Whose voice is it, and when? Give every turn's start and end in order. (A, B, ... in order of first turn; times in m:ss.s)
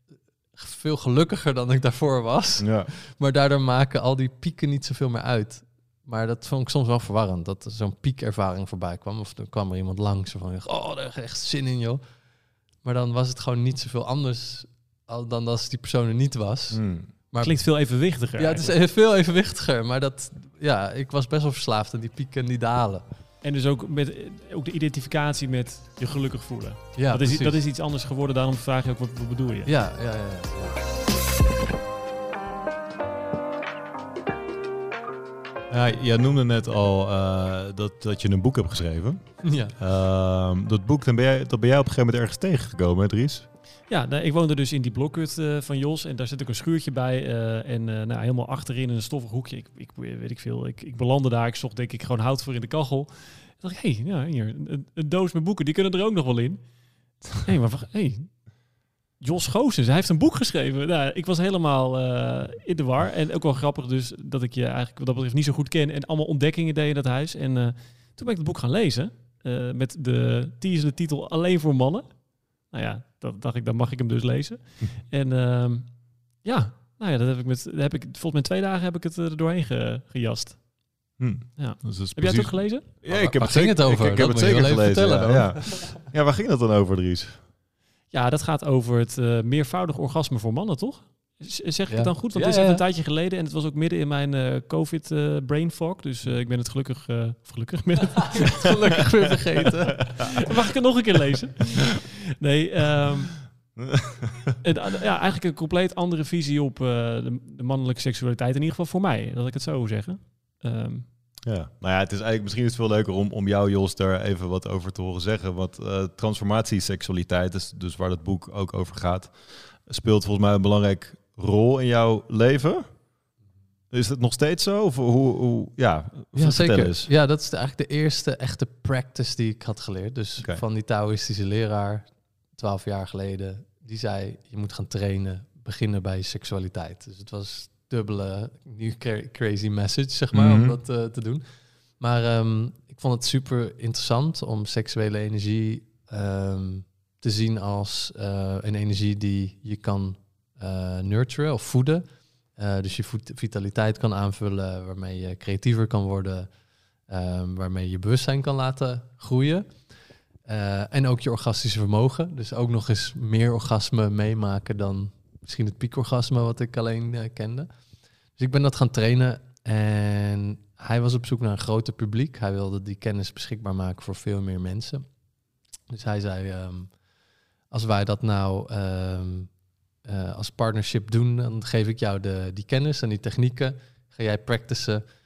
0:00.5-0:12.0 A
0:02.6-0:02.9 B
0:12.8-0:17.6 A
0:16.7-0:17.1 B
0:17.4-0:18.7 C
0:18.4-0:23.0 A
0:23.4-0:29.7 C
0:27.0-0:27.6 A
0:29.6-0:30.8 A
0:35.7-0:43.4 B
0:39.4-0:39.7 A
0:43.9-0:56.7 C
0:57.3-0:58.5 C
0:59.2-1:20.6 C
1:21.2-1:27.4 B
1:21.6-1:22.8 C
1:23.1-1:26.0 A
1:28.1-1:38.8 C
1:31.9-1:32.8 A
1:38.3-1:40.3 A
1:40.0-1:43.5 C
1:43.8-1:44.6 B
1:44.6-1:51.1 C
1:51.4-2:02.8 B
2:03.9-2:07.1 B
2:06.3-2:21.4 A
2:20.3-2:20.8 B
2:22.0-2:32.0 A
2:32.6-2:36.5 A
2:37.1-2:39.7 A
2:40.4-2:47.7 A
2:48.4-2:55.0 A
2:55.9-2:56.9 A
2:57.7-2:59.5 A
3:00.0-3:05.0 A